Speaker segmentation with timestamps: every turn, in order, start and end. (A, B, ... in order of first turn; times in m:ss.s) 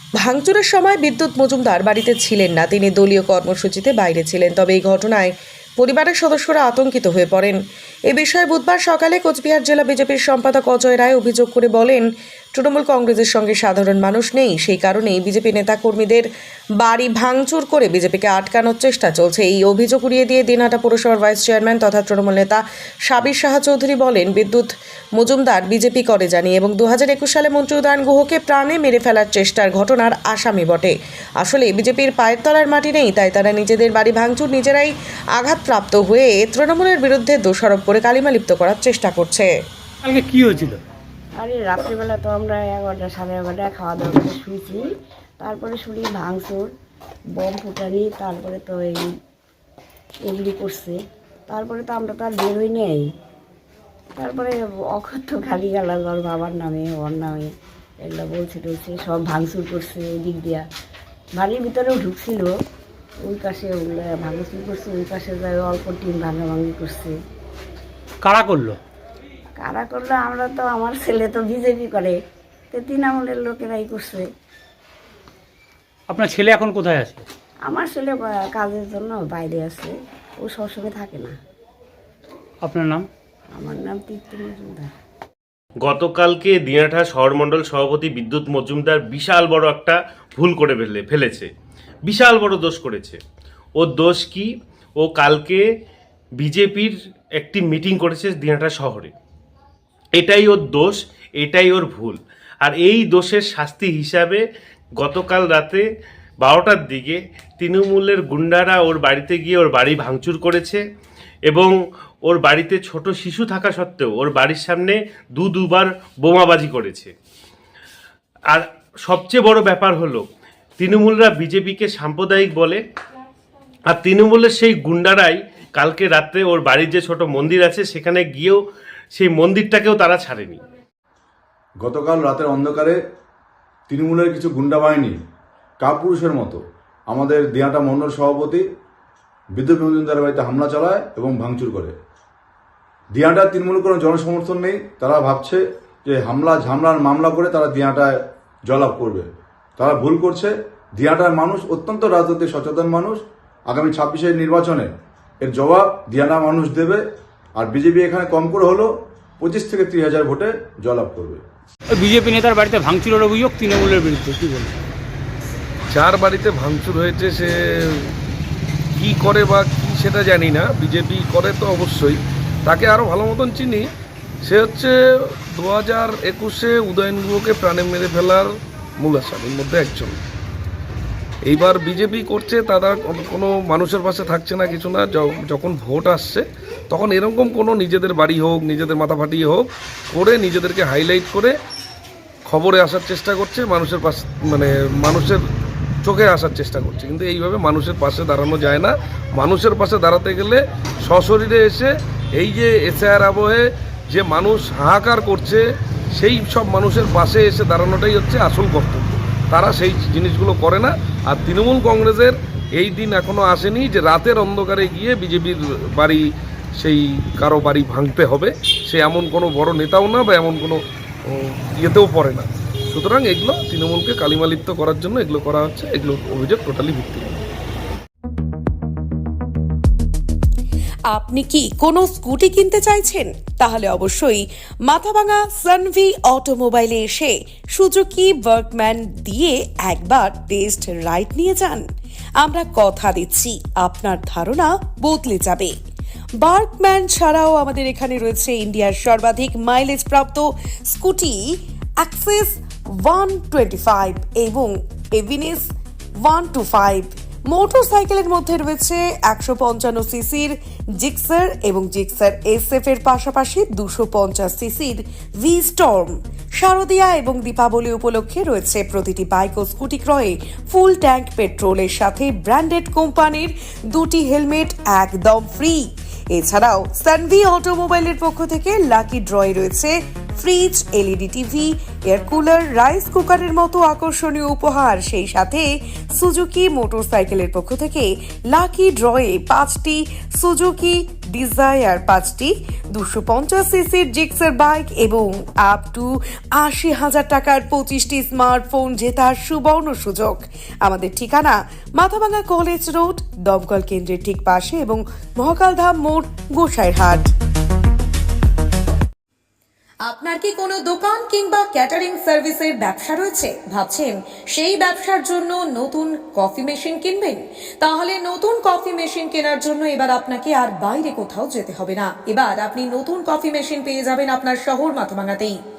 0:00.2-0:16.3 A
0:16.8-0:39.5 A
0:40.0-0:40.8 B
0:41.4-0:44.8 C
0:45.4-0:46.7 C
0:47.4-0:49.1 C
0:50.2-0:53.1 C
0:54.2-1:00.6 C
1:01.3-1:02.5 C
1:03.2-1:07.2 C
1:08.2-1:08.8 B
1:09.6-1:12.2 C
1:12.7-1:14.3 C
1:16.1-1:17.2 B
1:17.6-1:21.3 C
1:22.6-1:23.1 B
1:23.5-1:24.9 C
1:25.8-1:31.5 D
1:32.1-1:33.2 D
1:33.8-1:35.6 D
1:36.4-1:39.1 D
1:40.2-1:44.4 D
1:45.0-1:45.8 D
1:46.4-1:50.8 D
1:51.5-1:51.7 D
1:52.2-1:57.1 D
1:58.5-2:00.2 D
2:00.8-2:02.8 D
2:03.9-2:08.6 D
2:09.1-2:10.6 D
2:11.8-2:13.0 E
2:13.9-2:15.2 E
2:15.8-2:18.6 E
2:19.5-2:21.9 E
2:23.1-2:28.2 E
2:28.7-2:37.0 E
2:37.5-2:41.4 E
2:41.9-2:44.7 B
2:45.9-2:48.2 F
2:48.9-2:53.9 F
2:54.4-3:00.2 F
3:01.4-3:11.6 F
3:12.4-3:15.4 F
3:16.0-3:36.2 F
3:36.8-3:47.4 F
3:51.1-4:01.8 A
4:02.4-4:05.8 A
4:06.4-5:07.3 A
5:10.0-5:25.6 A